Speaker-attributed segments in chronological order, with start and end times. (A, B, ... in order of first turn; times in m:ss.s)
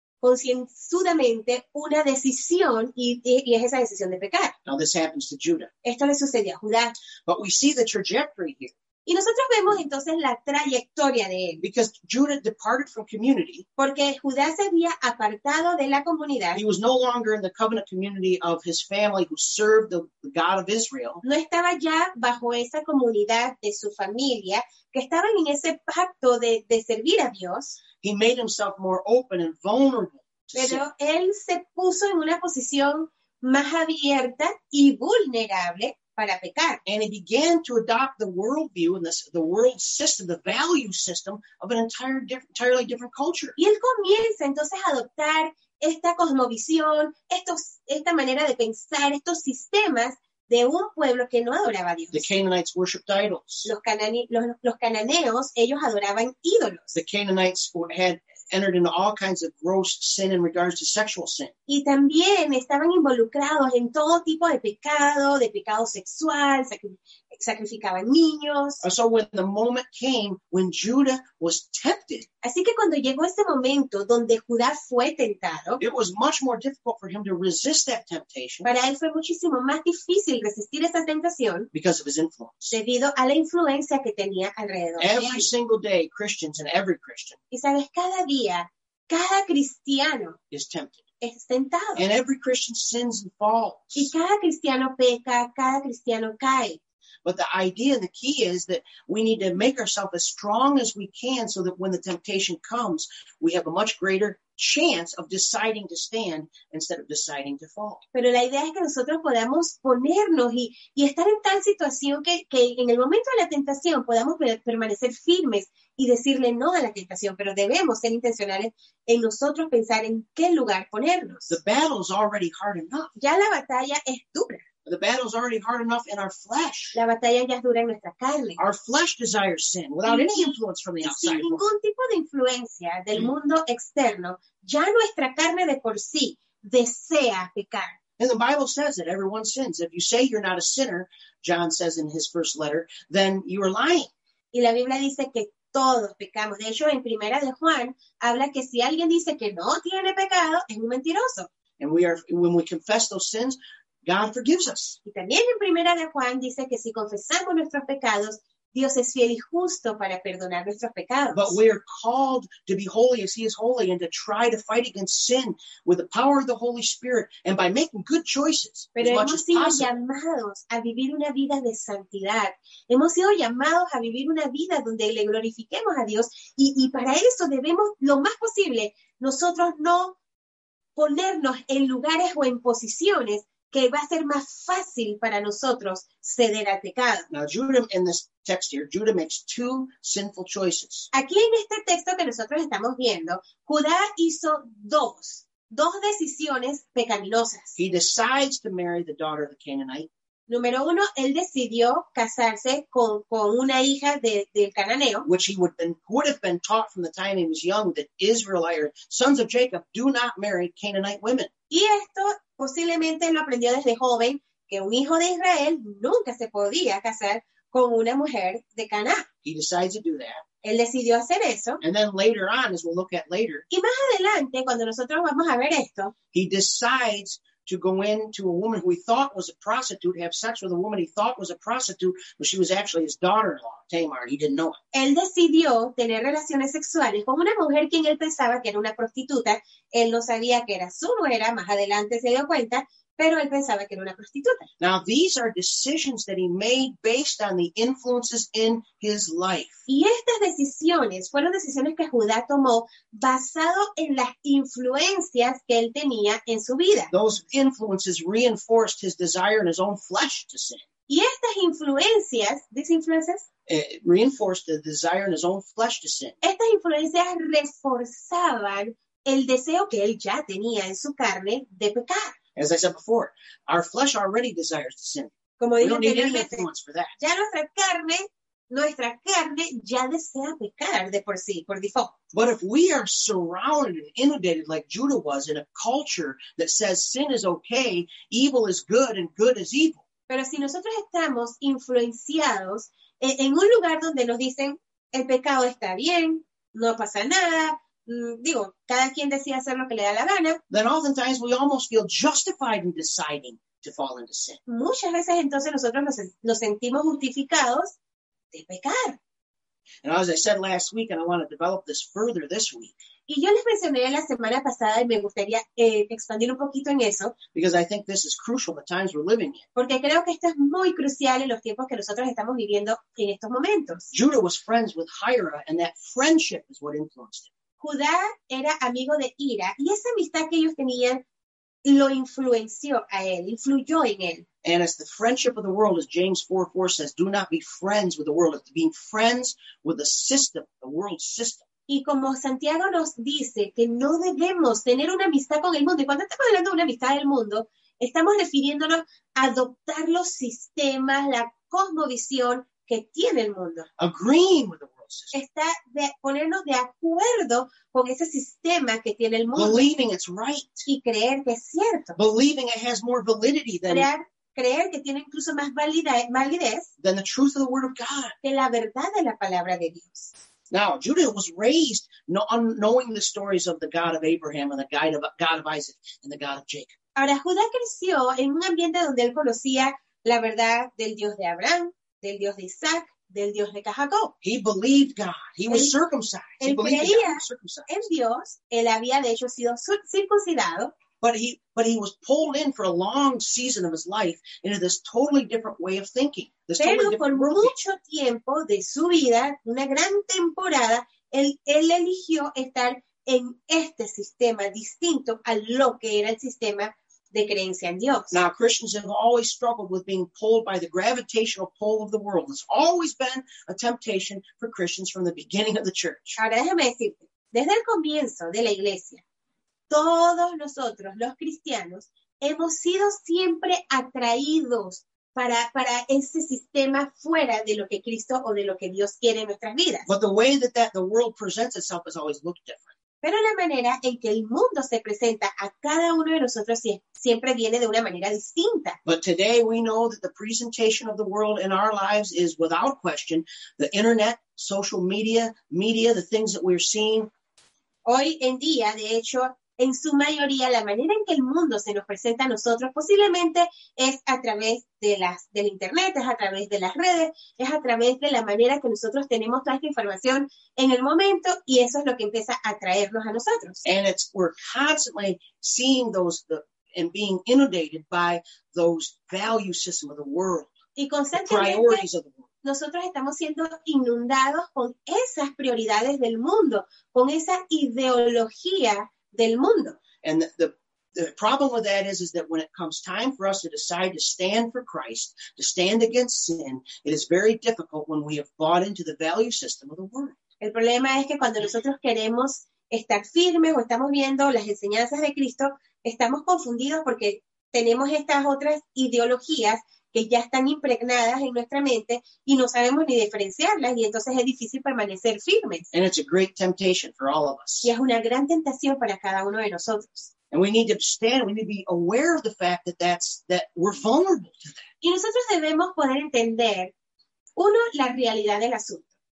0:00.2-0:04.5 A
0:04.6-0:05.7 B
0:05.8-0:07.0 A
0:07.2-0:08.7 B
0:09.0-0:11.6 A
0:11.6-0:13.6 B
0:13.8-0:16.6 A
0:16.5-0:21.2 B
0:21.2-0:27.8 A
0:28.0-0:30.8 B
0:30.5-0:36.8 A
0:36.8-0:43.6 B
0:43.6-0:52.2 A
0:52.1-0:53.7 B
0:53.6-0:57.0 A
0:56.9-1:01.5 B
1:01.7-1:08.8 A
1:08.8-1:12.2 B
1:12.4-1:15.8 A
1:15.8-1:18.7 B
1:18.6-1:21.7 A
1:21.7-1:22.7 B
1:22.7-1:25.5 A
1:25.0-1:27.4 B
1:27.5-1:30.4 A
1:30.5-1:31.0 B
1:31.2-1:32.0 A
1:32.0-1:34.1 B
1:33.9-1:36.8 A
1:37.2-1:48.0 B
1:48.1-2:01.6 A
2:01.5-2:03.1 B
2:03.2-2:04.6 A
2:04.8-2:07.0 B
2:06.9-2:08.6 A
2:08.6-2:11.6 B
2:10.0-2:18.0 A
2:18.2-2:24.1 B
2:24.5-2:31.5 A
2:31.8-2:35.0 B
2:35.0-2:41.6 A
2:41.3-2:49.9 B
2:49.0-3:00.2 A
3:01.0-3:07.3 A
3:07.3-3:11.1 B
3:11.1-3:17.8 A
3:17.8-3:20.1 B
3:20.5-3:25.2 A
3:25.2-3:31.5 B
3:31.7-3:39.2 A
3:39.4-3:40.4 B
3:40.6-3:41.8 A
3:41.8-3:43.6 B
3:43.7-3:46.1 A
3:46.3-3:54.8 B
3:54.9-4:04.7 A
4:04.8-4:09.8 B
4:09.9-4:17.1 A
4:17.1-4:20.8 B
4:21.1-4:23.4 A
4:23.7-4:26.4 B
4:26.4-4:32.3 A
4:32.6-4:37.2 B
4:35.6-4:36.7 A
4:37.2-4:42.1 A
4:42.3-4:50.0 B
4:50.3-5:00.6 A
5:00.7-5:04.6 B
5:04.7-5:07.9 A
5:08.5-5:09.2 A
5:10.0-5:12.9 B
5:13.3-5:17.3 A
5:17.5-5:19.6 B
5:19.7-5:24.1 A
5:24.1-5:27.5 B
5:27.8-5:31.2 A
5:31.8-5:34.4 A
5:34.6-5:41.6 B
5:41.9-5:53.9 A
5:54.0-5:55.3 B
5:55.3-5:59.9 A
5:59.6-6:00.8 B
6:00.8-6:02.2 A
6:02.2-6:04.1 B
6:03.9-6:06.9 A
6:07.0-6:08.3 B
6:08.4-6:10.3 A
6:10.7-6:16.9 B
6:17.2-6:24.3 A
6:24.4-6:28.0 B
6:26.6-6:30.9 A
6:31.2-6:37.8 B
6:36.8-6:48.4 A
6:48.3-6:56.4 B
6:56.4-6:59.2 A
6:59.9-7:10.1 A
7:10.1-7:12.9 B
7:13.2-7:19.0 A
7:19.0-7:27.3 B
7:28.0-7:43.8 A
7:43.8-7:50.7 B
7:51.0-7:52.0 A
7:51.3-7:52.4 B
7:52.6-8:00.0 A
8:00.2-8:10.4 B
8:10.6-8:25.9 A
8:25.9-8:27.9 B
8:27.8-8:30.3 A
8:30.5-8:34.8 B
8:35.0-8:36.9 A
8:37.6-8:39.1 A